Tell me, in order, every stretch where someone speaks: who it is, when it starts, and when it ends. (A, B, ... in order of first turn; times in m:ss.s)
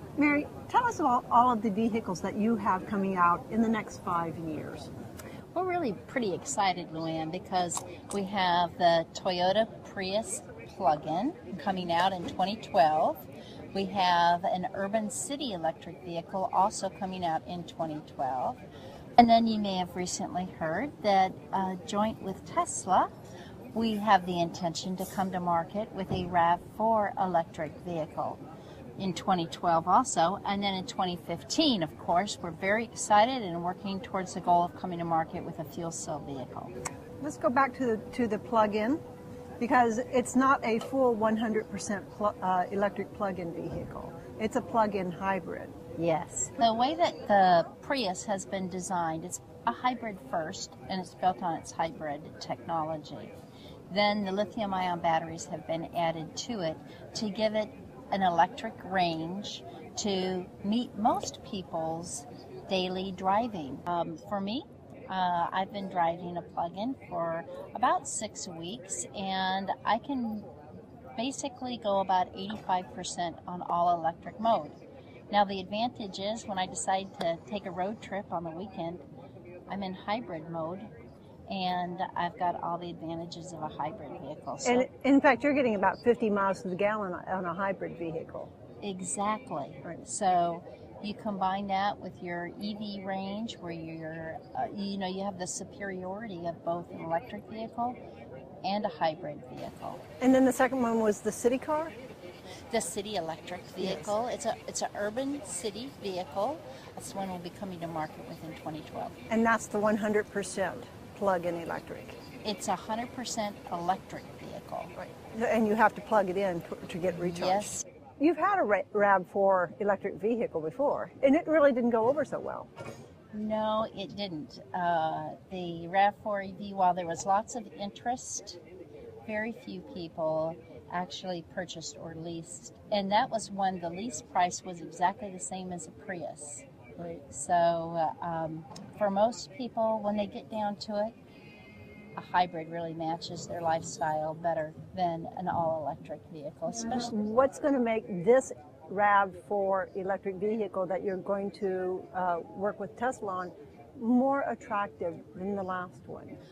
0:00.2-0:04.9 A
0:05.5-0:18.6 B
0:19.2-0:23.1 B
0:23.7-0:28.4 B
0:29.0-0:36.7 B
0:37.2-0:39.0 A
0:39.6-0:45.8 A
0:46.0-0:53.3 B
0:53.9-1:10.5 B
1:11.2-1:14.8 B
1:15.3-1:19.0 B
1:19.7-1:20.9 B
1:21.5-1:24.8 B
1:24.6-1:28.5 A
1:28.8-1:38.0 B
1:38.6-1:40.0 B
1:40.2-1:41.9 A
1:42.7-1:49.2 B
1:43.8-1:44.1 A
1:49.3-1:52.2 A
1:52.4-1:54.9 B
1:55.0-2:02.7 A
1:57.3-1:57.8 B
2:03.3-2:08.6 B
2:09.2-2:16.6 B
2:17.3-2:21.1 B
2:22.2-2:27.1 B
2:26.9-2:36.4 A